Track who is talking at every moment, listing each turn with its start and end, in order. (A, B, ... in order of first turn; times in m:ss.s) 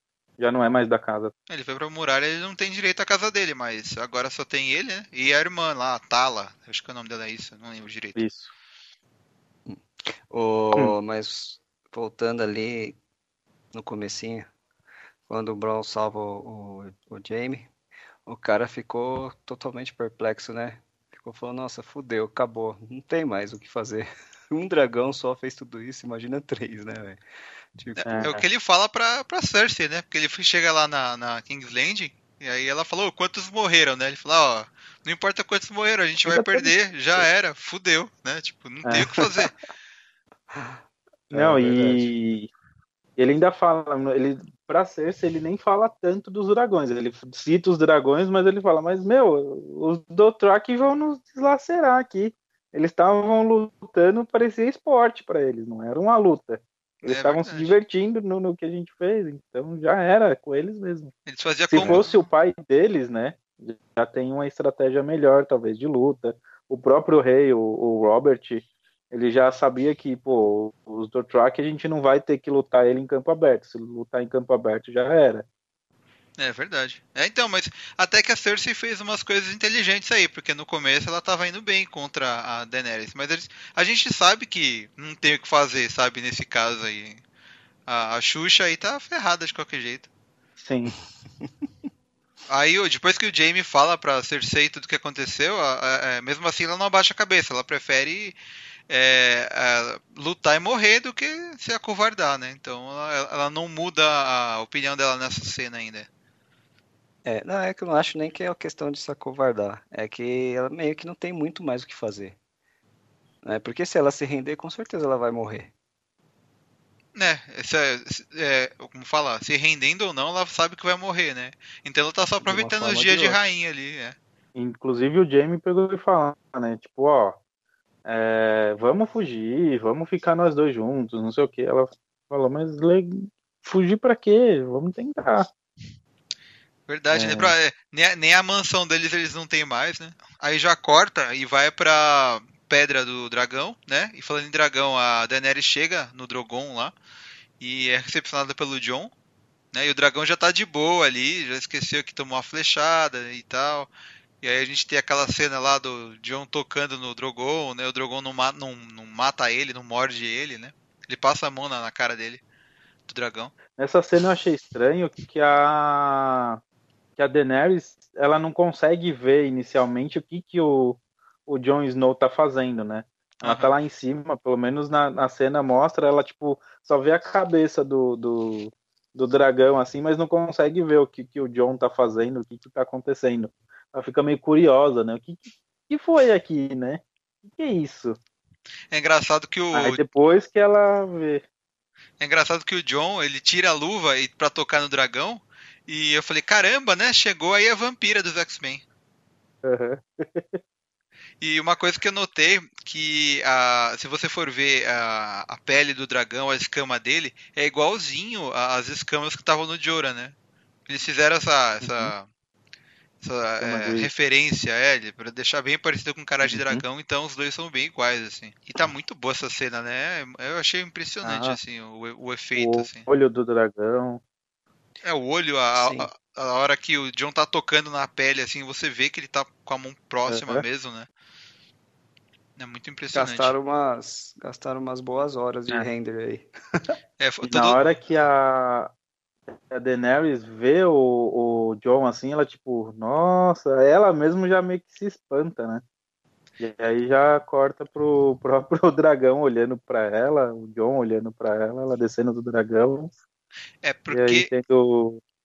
0:00.4-0:01.3 A
0:01.5-0:08.2 B
0:08.2-0:08.5 A
0:09.7-0:13.0 C
0:13.7-0:14.5 C
0:15.3-0:17.7 C
0:18.3-0:27.2 C
0:27.8-0:28.3 C
0:28.0-0:39.6 B
0:28.1-0:28.4 A
0:36.3-0:37.3 A
0:38.8-0:39.5 A
0:40.5-0:42.1 C
0:41.3-0:42.5 A
0:43.2-1:01.1 A
0:57.1-0:57.8 B
1:01.3-1:02.1 B
1:01.7-1:15.5 A
1:01.8-1:02.1 C
1:16.4-1:27.2 B
1:27.9-1:30.1 B
1:30.6-1:31.0 A
1:32.5-1:38.4 B
1:38.9-1:46.1 B
1:47.2-1:52.4 C
1:53.4-1:55.7 C
1:57.2-2:04.2 B
2:02.4-2:03.4 C
2:04.6-2:07.4 A
2:08.0-2:15.5 A
2:16.9-2:26.9 B
2:17.1-2:17.5 A
2:27.6-2:29.1 B
2:29.7-2:33.9 B
2:34.4-2:42.4 B
2:43.1-2:43.6 B
2:43.8-2:46.6 A
2:47.2-3:08.2 A
2:53.4-2:53.7 B
3:08.9-3:10.0 B
3:09.7-3:11.4 A
3:12.2-3:18.8 B
3:19.6-3:20.6 A
3:21.4-3:30.3 B
3:30.9-3:32.3 B
3:31.8-3:32.1 A
3:33.2-3:43.1 B
3:33.6-3:34.1 A
3:36.4-3:36.8 A
3:41.2-3:41.6 A
3:42.6-3:44.2 A
3:45.0-3:51.1 B
3:45.8-3:46.1 C
3:50.3-3:50.6 A
3:52.6-3:53.5 B
3:53.2-3:56.5 C
3:57.2-3:57.8 B
3:57.4-3:58.9 A
3:59.7-4:05.8 A
4:06.6-4:13.1 A
4:13.8-4:14.5 B
4:14.1-4:15.2 A